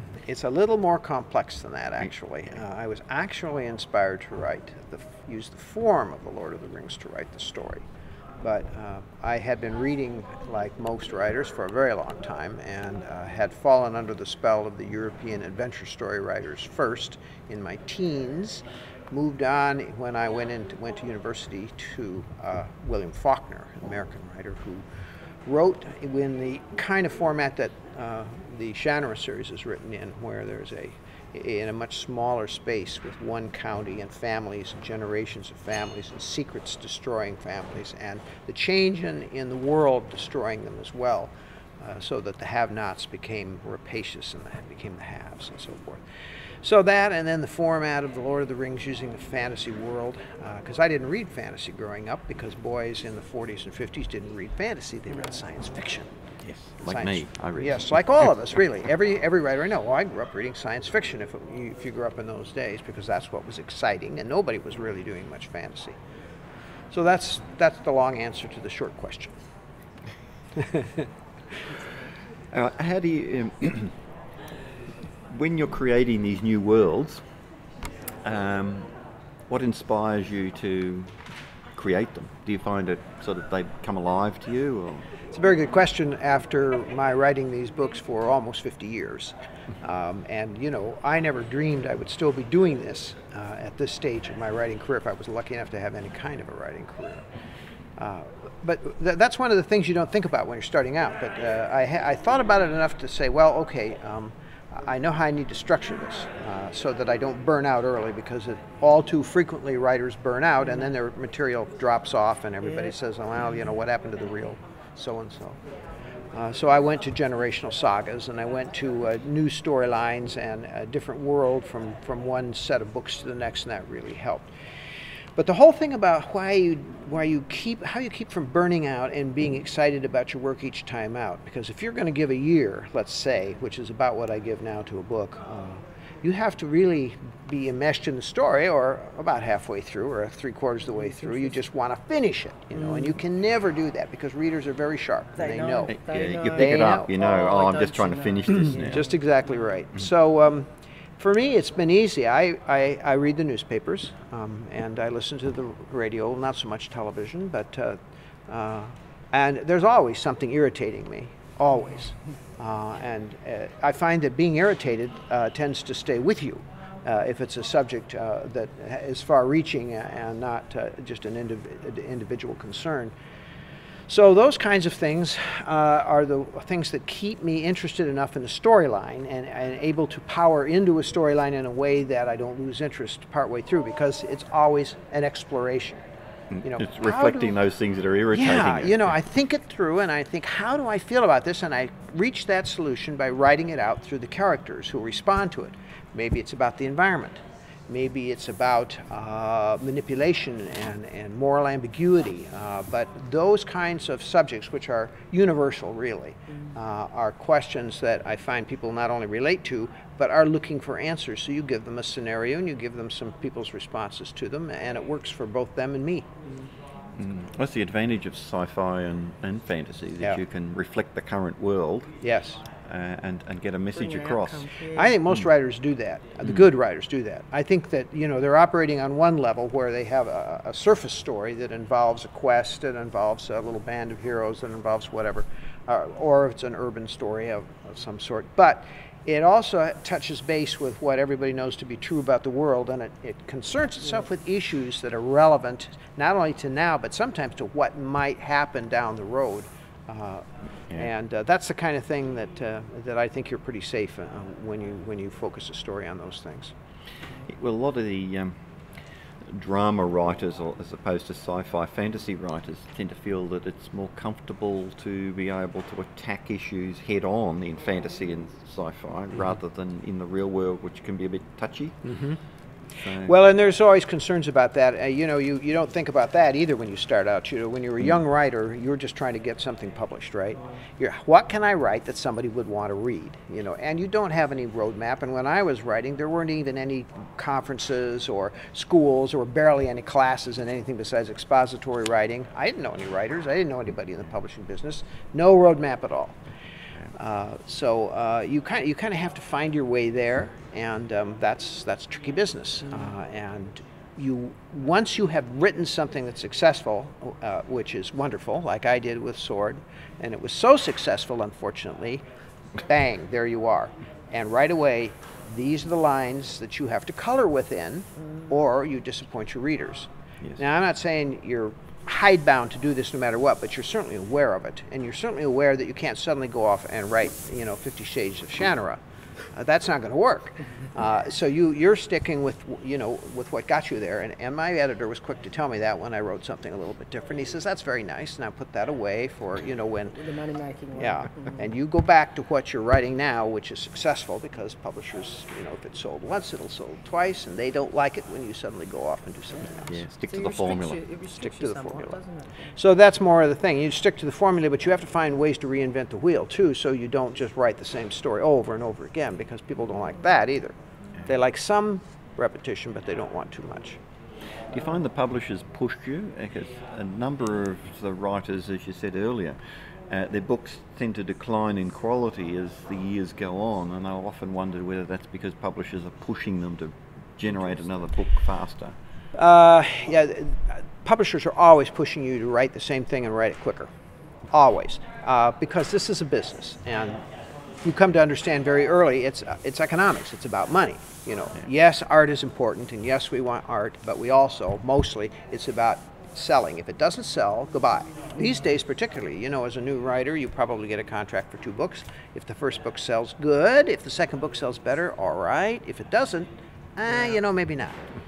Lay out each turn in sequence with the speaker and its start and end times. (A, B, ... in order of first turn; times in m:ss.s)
0:00.2-0:07.8 A
0:08.4-0:24.8 A
0:25.5-0:46.0 A
0:46.6-0:56.1 A
0:56.4-0:57.9 B
0:56.8-1:06.0 A
1:06.9-1:09.4 A
1:10.6-1:11.0 A
1:12.5-1:13.9 B
1:15.3-1:17.2 B
1:18.2-1:18.9 B
1:19.5-1:21.2 B
1:21.7-1:25.1 B
1:25.3-1:37.2 A
1:38.0-1:55.6 A
1:56.3-2:04.5 A
2:05.4-2:26.0 A
2:21.1-2:21.5 C
2:22.8-2:23.1 C
2:25.4-2:29.1 C
2:25.9-2:29.1 B
2:26.5-2:27.1 A
2:28.8-2:53.1 A
2:54.1-3:06.0 A
3:06.5-3:09.1 B
3:06.6-3:07.6 A
3:08.3-3:36.3 A
3:37.2-3:42.1 B
3:42.2-3:42.6 A
3:42.9-3:44.7 B
3:43.9-3:45.2 C
3:44.9-4:16.7 A
4:17.5-4:18.6 B
4:19.5-4:32.0 B
4:32.0-4:32.4 A
4:33.0-4:33.3 B
4:33.2-4:56.4 A
4:57.1-5:12.2 A
5:12.8-5:29.0 A
5:29.5-5:40.2 A
5:40.2-5:41.8 C
5:41.0-5:50.0 A
5:49.9-5:51.0 B
5:50.2-5:52.7 C
5:51.4-5:52.2 A
5:52.8-6:04.0 A
6:04.7-6:09.6 B
6:10.1-6:19.0 B
6:19.3-6:23.9 A
6:24.5-6:27.2 A
6:27.8-6:48.0 A